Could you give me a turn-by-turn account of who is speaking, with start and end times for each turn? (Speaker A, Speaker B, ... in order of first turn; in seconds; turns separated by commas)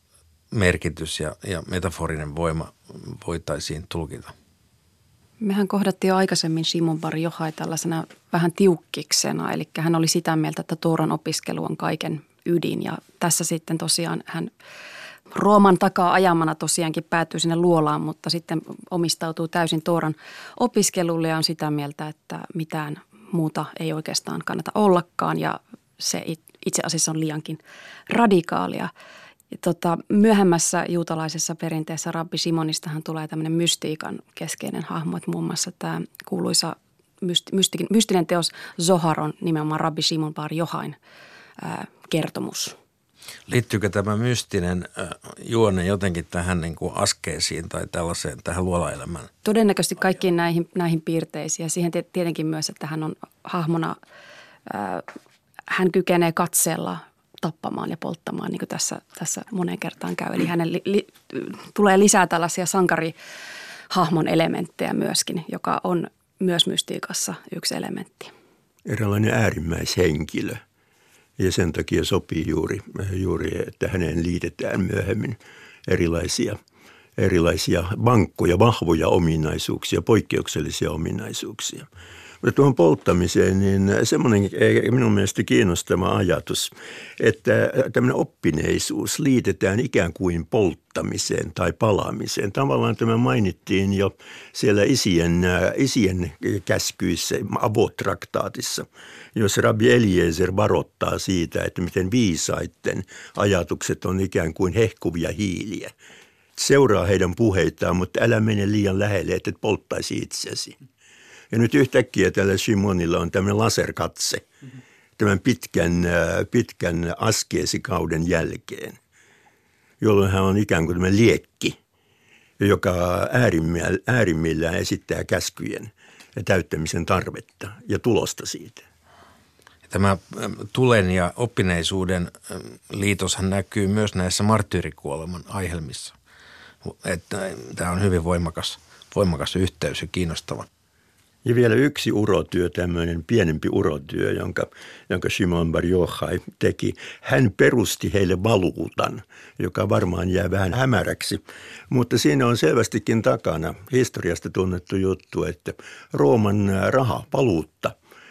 Speaker A: 0.5-4.3, Speaker B: 5.4-14.5, Speaker B: 15.3-28.9, Speaker B: 29.5-41.0, Speaker B: 41.6-42.8, Speaker A: 43.5-49.3, Speaker B: 49.4-54.0, Speaker B: 54.7-55.0, Speaker B: 55.7-63.1, Speaker B: 63.9-68.3, Speaker C: 68.8-70.6, Speaker C: 71.4-76.6, Speaker C: 77.2-81.9, Speaker C: 82.4-105.9, Speaker C: 106.6-110.8, Speaker C: 111.5-114.4, Speaker C: 115.2-119.0, Speaker C: 120.0-121.8, Speaker C: 122.6-128.8, Speaker A: 129.9-136.1, Speaker A: 136.8-140.7, Speaker C: 141.4-157.9